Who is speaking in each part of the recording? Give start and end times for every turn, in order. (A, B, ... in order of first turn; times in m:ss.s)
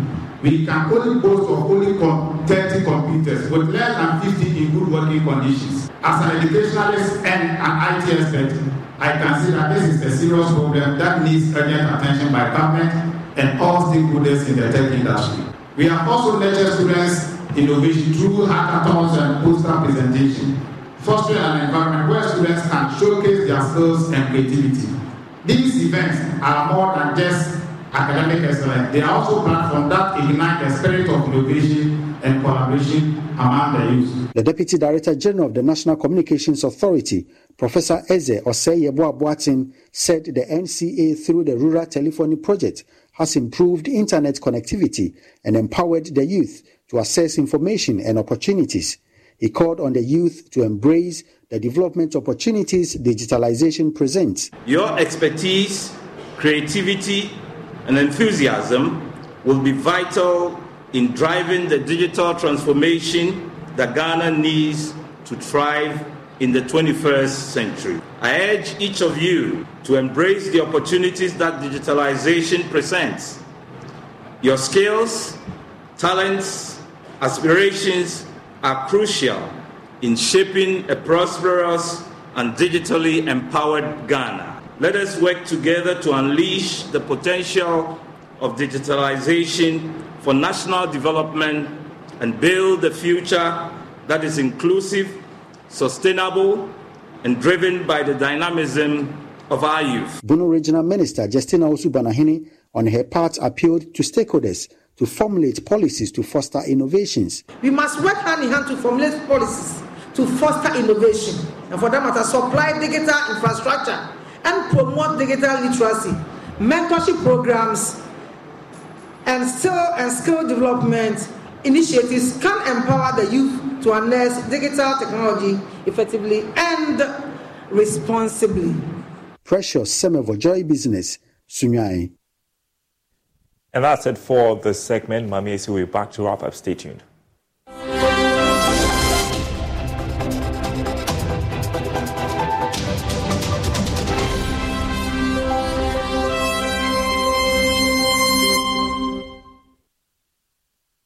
0:00.4-0:24.9 A
0:25.4-0:34.2 A
0:34.3-0:54.5 B
0:54.7-1:13.4 C
1:14.4-1:15.4 C
1:16.0-1:40.2 C
1:40.2-1:47.5 B
1:47.6-1:58.0 D
1:59.2-2:08.8 D
2:09.4-2:12.1 B
2:13.7-2:17.0 E